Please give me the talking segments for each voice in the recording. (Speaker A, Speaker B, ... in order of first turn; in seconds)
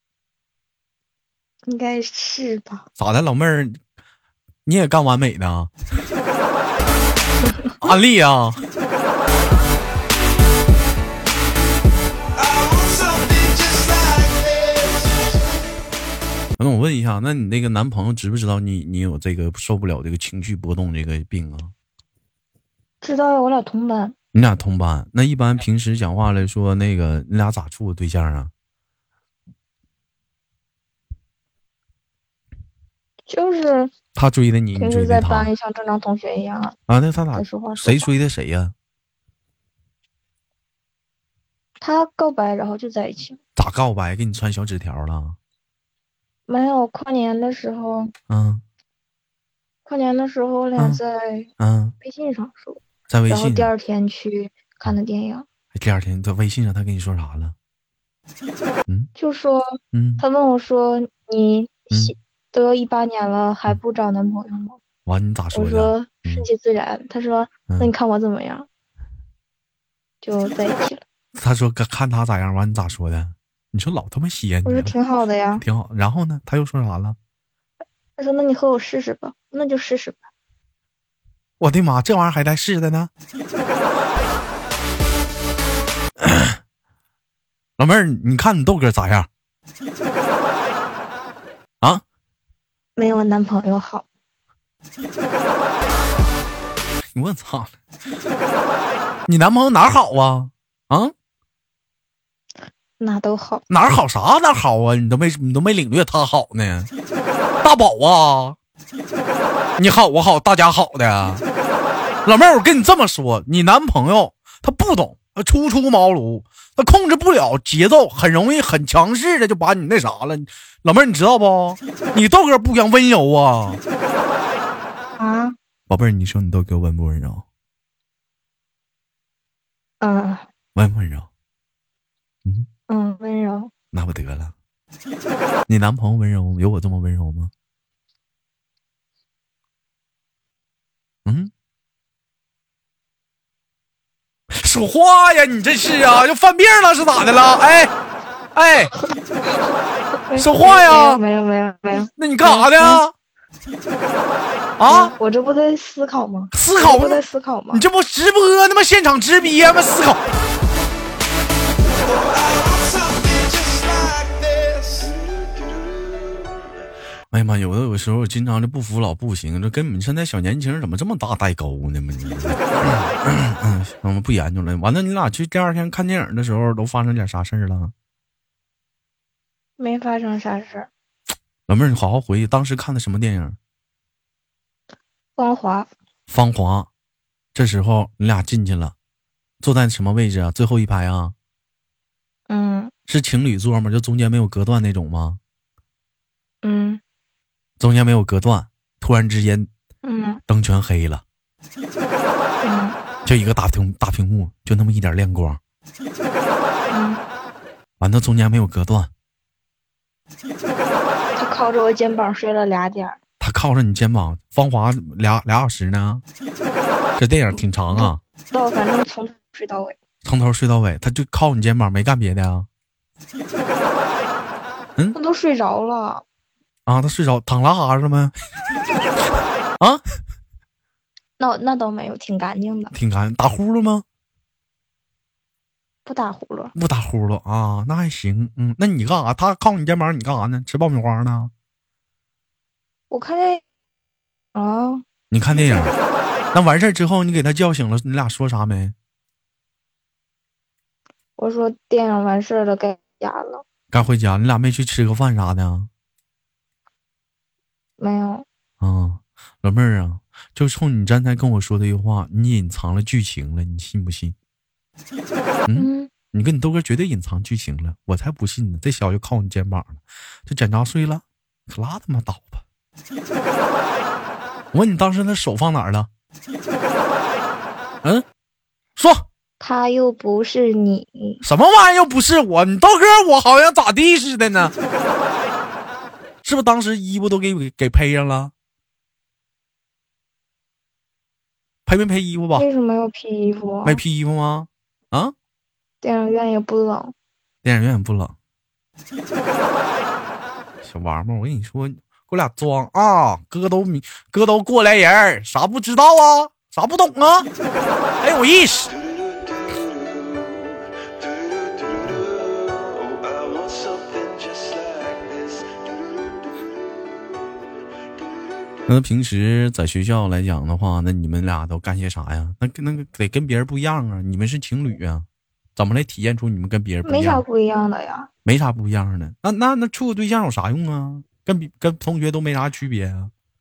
Speaker A: 1.7-2.9, 23.0-24.1, 33.3-33.9, 34.8-36.8, 37.3-38.1, 41.8-43.4, 46.5-48.1, 49.9-51.5, 52.0-55.5, 59.1-64.8, 65.5-68.7, 70.2-71.0, 74.6-75.6, 78.2-80.2, 93.0-94.0, 103.0-103.6, 125.2-125.5, 130.0-130.4, 132.9-133.7, 150.3-153.0, 154.8-157.8, 179.8-180.9, 185.4-185.9, 192.5-192.9, 196.6-197.0, 200.0-200.4, 202.6-202.9, 206.9-207.2, 211.3-213.2, 217.9-219.9, 225.1-226.2, 231.4-232.9, 236.1-236.7, 243.1-243.6, 244.5-245.0, 251.4-253.6, 258.0-258.4, 265.7-266.1, 279.6-281.4, 292.5-294.0, 296.0-297.1, 327.0-328.3
Speaker B: 3.0-3.8, 4.6-5.7, 7.8-8.6, 16.6-21.7, 24.3-28.5, 34.1-35.5, 36.9-38.7, 43.5-45.4, 48.3-48.6, 51.6-51.9, 53.1-53.7, 55.7-57.5, 59.9-60.2, 65.0-66.5, 71.3-74.9, 75.6-77.2, 81.6-83.1, 86.2-86.6, 87.8-89.3, 97.1-97.7, 99.3-101.1, 103.7-106.9, 107.6-108.6, 109.8-111.4, 112.2-123.8, 125.9-127.4, 130.7-131.3, 133.9-134.5, 135.7-137.5, 141.2-141.5, 144.5-147.9, 148.5-148.9, 150.3-151.2, 152.2-153.1, 154.8-155.1, 156.5-160.2, 167.3-177.9, 181.7-183.6, 186.3-186.9, 187.5-188.9, 189.6-191.3, 193.1-195.4, 197.8-199.7, 200.5-201.2, 203.2-205.6, 208.0-209.1, 213.4-216.2, 217.2-218.2, 220.2-222.7, 226.8-228.3, 232.9-234.0, 236.7-241.5, 245.3-245.9, 246.5-248.9, 253.9-255.9, 258.8-264.4, 265.7-272.6, 274.7-276.1, 279.0-279.2, 281.4-284.7, 286.4-288.5, 291.9-292.6, 293.8-295.3, 297.6-298.3, 300.8-307.5, 308.2-308.9, 318.9-327.4, 328.4-333.3
Speaker C: 12.3-15.3, 161.8-166.4, 308.9-316.2